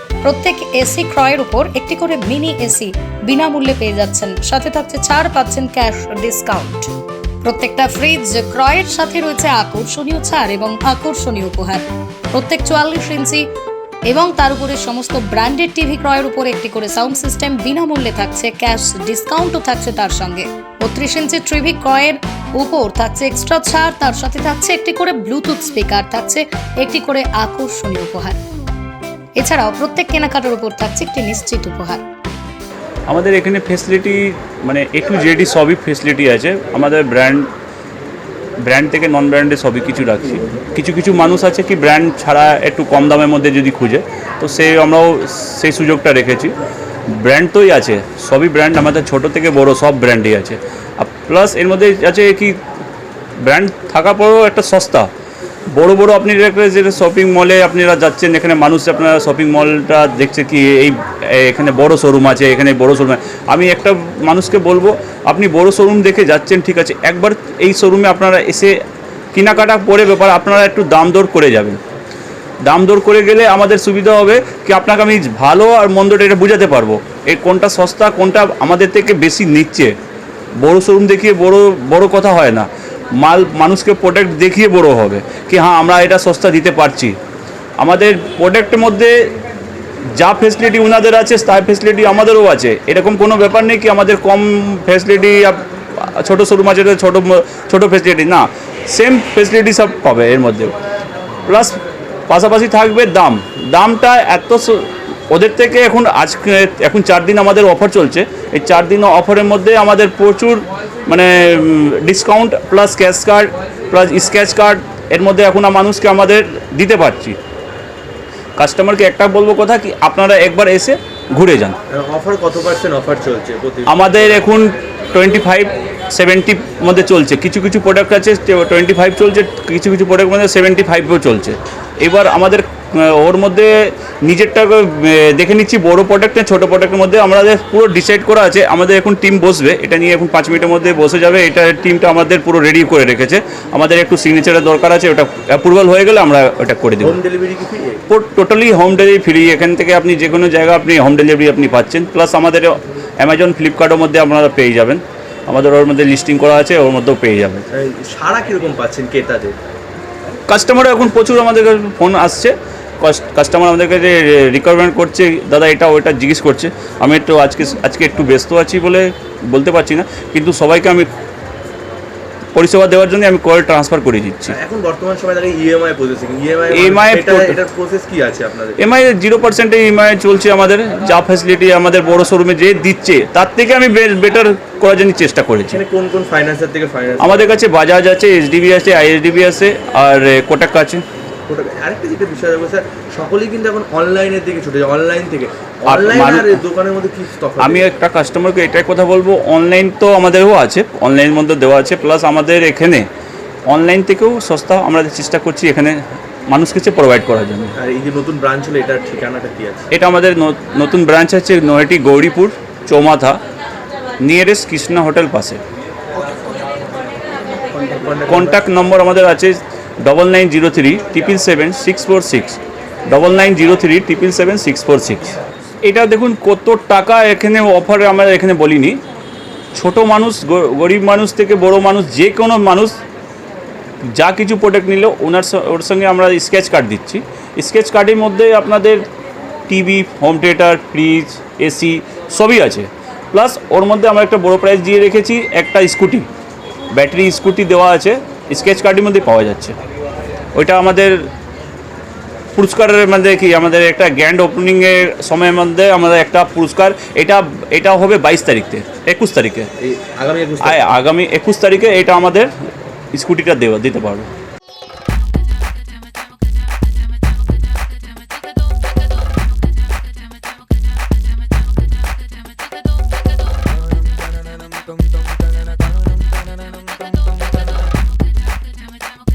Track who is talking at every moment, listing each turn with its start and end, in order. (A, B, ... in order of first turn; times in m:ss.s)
0:00.2-0:06.9 A
0:07.4-0:13.5 A
0:14.1-0:28.4 A
0:29.4-0:32.0 A
0:33.1-0:37.5 B
0:38.6-0:46.5 B
0:47.1-0:52.6 B
0:53.4-0:55.1 B
0:55.7-1:08.8 B
1:09.3-1:11.8 B
1:12.6-1:20.0 B
1:20.6-1:27.2 B
1:27.8-1:29.3 B
1:30.1-1:40.7 B
1:41.4-1:57.4 B
1:58.6-2:01.8 B
2:01.9-2:04.4 C
2:03.9-2:27.2 B
2:27.0-2:28.0 C
2:28.1-2:37.7 B
2:37.7-2:39.6 C
2:40.5-2:51.1 B
2:52.5-2:54.6 B
2:54.5-2:58.8 C
2:56.7-2:57.6 B
2:58.8-3:05.8 B
3:05.7-3:07.5 C
3:07.2-3:11.0 B
3:11.5-3:17.8 C
3:15.9-3:16.6 B
3:17.6-3:23.1 B
3:23.7-3:27.8 B
3:27.8-3:29.9 C
3:29.9-3:33.4 B
3:34.2-3:35.6 B
3:37.7-3:38.6 C
3:38.3-3:49.0 B
3:49.7-3:53.0 B
3:54.1-3:59.1 B
3:59.7-4:06.3 B
4:06.9-4:09.8 B
4:10.5-4:11.3 B
4:12.5-4:19.7 B
4:19.8-4:20.8 C
4:20.6-4:22.5 B
4:23.1-4:24.3 B